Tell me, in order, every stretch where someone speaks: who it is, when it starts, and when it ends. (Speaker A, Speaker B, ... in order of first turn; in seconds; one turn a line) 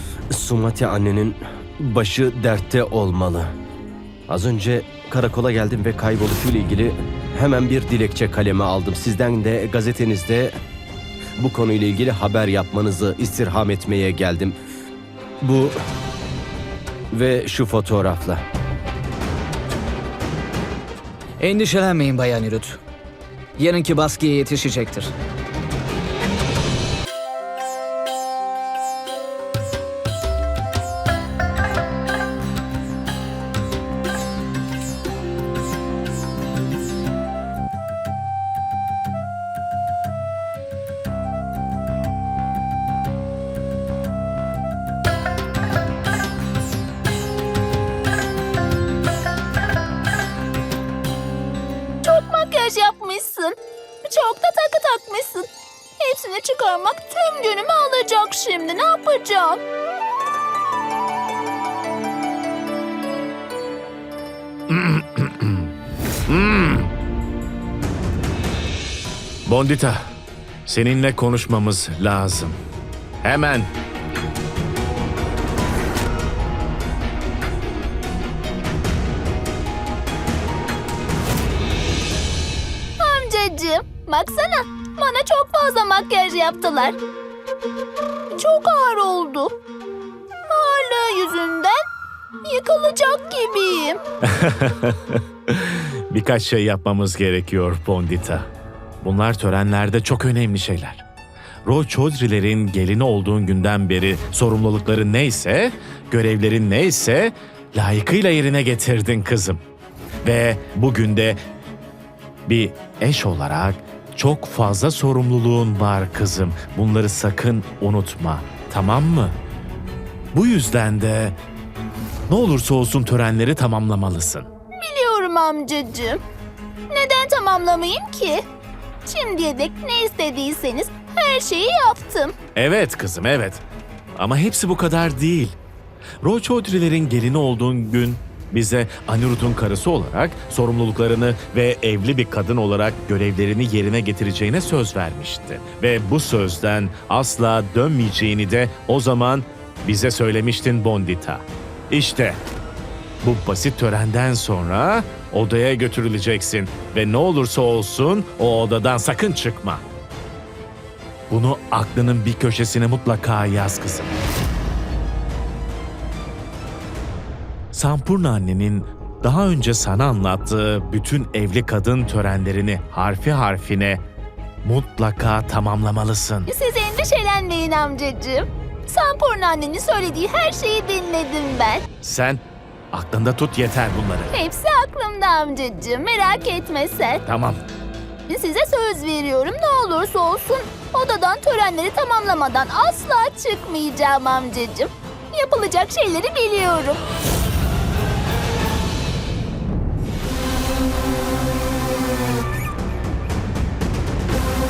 Speaker A: 0.3-3.5
Speaker A: 4.3-10.5
Speaker A: 11.4-14.6
Speaker A: 15.4-15.8
Speaker A: 17.1-18.4
Speaker B: 21.4-22.8
Speaker B: 23.6-25.1
Speaker C: 52.0-55.5
Speaker C: 56.0-59.6
Speaker D: 64.7-65.7
Speaker D: 66.3-66.9
Speaker D: 69.5-70.1
Speaker D: 70.7-72.6
Speaker D: 73.2-73.7
Speaker C: 83.0-87.0
Speaker C: 88.3-89.5
Speaker C: 90.5-91.8
Speaker C: 92.5-94.0
Speaker D: 94.2-98.5
Speaker D: 99.0-101.0
Speaker D: 101.7-109.6
Speaker D: 110.2-111.4
Speaker D: 112.5-119.4
Speaker D: 120.3-121.4
Speaker D: 122.3-124.5
Speaker C: 124.8-126.2
Speaker C: 126.9-128.4
Speaker C: 129.1-132.3
Speaker D: 132.6-133.6
Speaker D: 134.2-135.6
Speaker D: 136.2-152.4
Speaker D: 153.2-159.8
Speaker D: 161.3-164.2
Speaker D: 167.7-174.0
Speaker D: 174.6-176.5
Speaker C: 176.5-181.8
Speaker D: 182.0-184.3
Speaker C: 184.3-187.2
Speaker D: 187.3-187.6
Speaker C: 188.3-197.0